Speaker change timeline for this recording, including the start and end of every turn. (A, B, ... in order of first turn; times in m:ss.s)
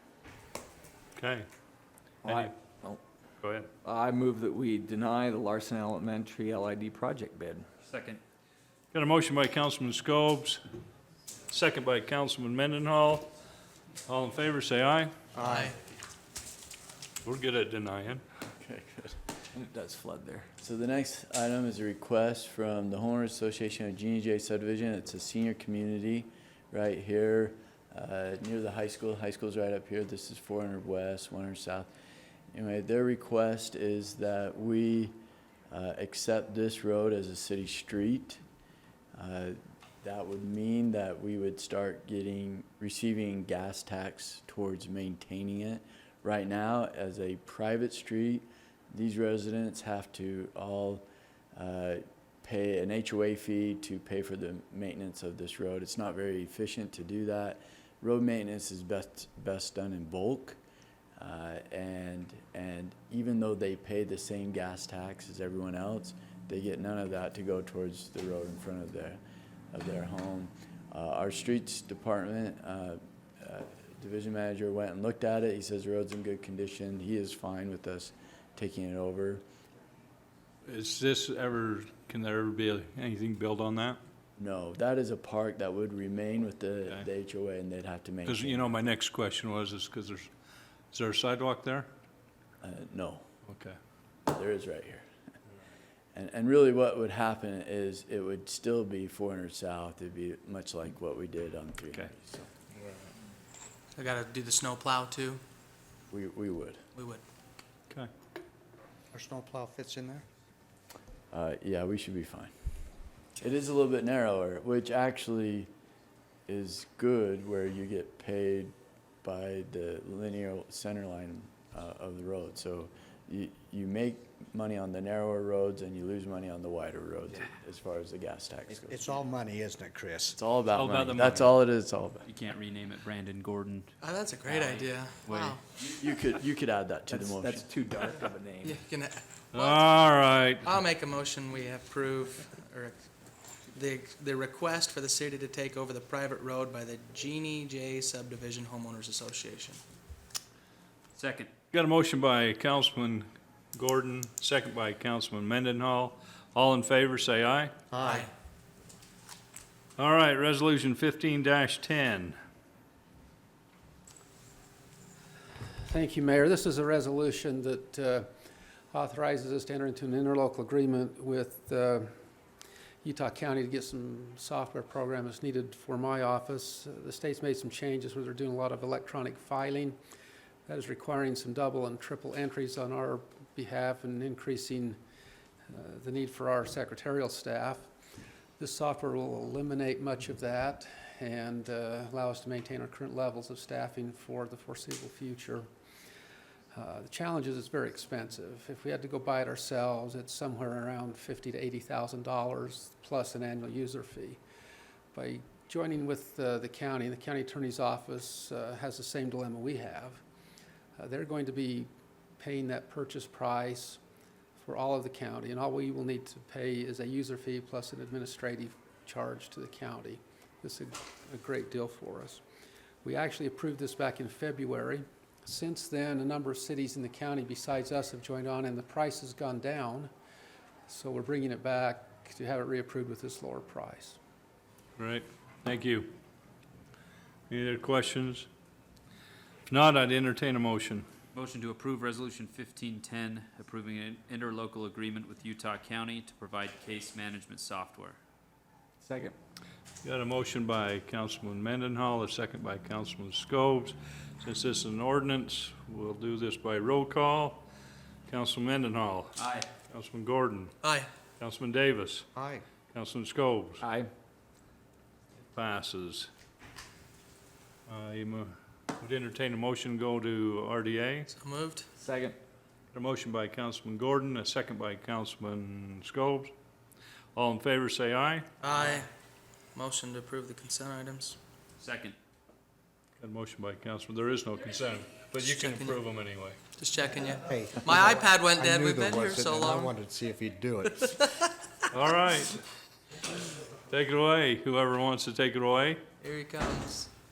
0:01.2-0:01.4 A
0:02.2-0:03.0 B
0:02.3-0:02.5 A
0:03.4-0:03.7 A
0:03.8-0:07.7 B
0:07.8-0:08.2 C
0:08.9-0:10.6 A
0:11.5-0:13.3 A
0:14.1-0:15.1 A
0:15.4-0:15.7 D
0:15.4-0:15.8 E
0:17.2-0:18.2 A
0:18.5-0:19.2 F
0:19.5-0:20.5 B
0:20.6-0:31.9 F
0:32.5-0:35.2 F
0:35.7-0:38.4 F
0:39.2-1:00.6 F
1:01.2-1:09.2 F
1:09.7-1:19.4 F
1:20.7-1:24.0 A
1:24.4-1:28.8 F
1:28.2-1:30.3 A
1:30.9-1:31.9 A
1:32.6-1:33.3 F
1:33.5-1:33.8 A
1:34.3-1:35.0 F
1:36.1-1:42.5 F
1:44.0-1:45.4 E
1:46.1-1:46.8 F
1:47.0-1:47.2 E
1:49.1-1:50.2 D
1:51.3-1:52.5 F
1:53.4-1:55.7 F
1:56.5-2:09.2 F
2:08.9-2:10.4 D
2:10.3-2:12.3 F
2:10.7-2:11.6 C
2:12.2-2:13.9 C
2:14.0-2:15.6 E
2:14.5-2:15.6 C
2:15.8-2:17.7 F
2:17.1-2:18.8 B
2:18.6-2:19.9 E
2:19.5-2:20.6 A
2:20.6-2:23.1 E
2:23.7-2:29.8 E
2:31.2-2:31.5 C
2:31.7-2:37.7 A
2:37.9-2:38.3 D
2:38.0-2:38.3 E
2:40.0-2:42.4 A
2:45.8-2:48.3 G
2:48.9-2:52.1 G
2:53.0-3:00.0 G
3:00.7-3:05.0 G
3:05.7-3:07.9 G
3:08.6-3:15.7 G
3:16.7-3:24.4 G
3:25.1-3:30.2 G
3:31.0-3:34.0 G
3:34.6-3:42.4 G
3:43.0-3:50.1 G
3:50.9-3:54.2 G
3:55.0-3:56.1 A
3:57.5-3:58.5 A
3:59.7-4:01.1 A
4:01.3-4:08.2 C
4:09.0-4:09.4 B
4:10.0-4:17.6 A
4:18.3-4:20.8 A
4:19.4-4:19.7 C
4:20.8-4:21.1 E
4:21.4-4:22.2 A
4:22.4-4:22.6 D
4:22.9-4:23.8 A
4:23.8-4:24.1 B
4:25.6-4:26.3 A
4:27.9-4:31.3 A
4:31.3-4:31.8 E
4:32.0-4:32.4 B
4:32.9-4:36.5 A
4:37.4-4:38.5 A
4:38.6-4:39.1 E
4:39.8-4:41.4 E
4:41.8-4:42.2 C
4:43.2-4:46.6 A
4:45.4-4:46.0 E
4:46.8-4:49.9 E
4:47.3-4:51.3 D
4:51.2-4:51.5 E
4:51.9-4:52.6 A
4:53.9-4:56.0 A
4:56.2-4:57.1 E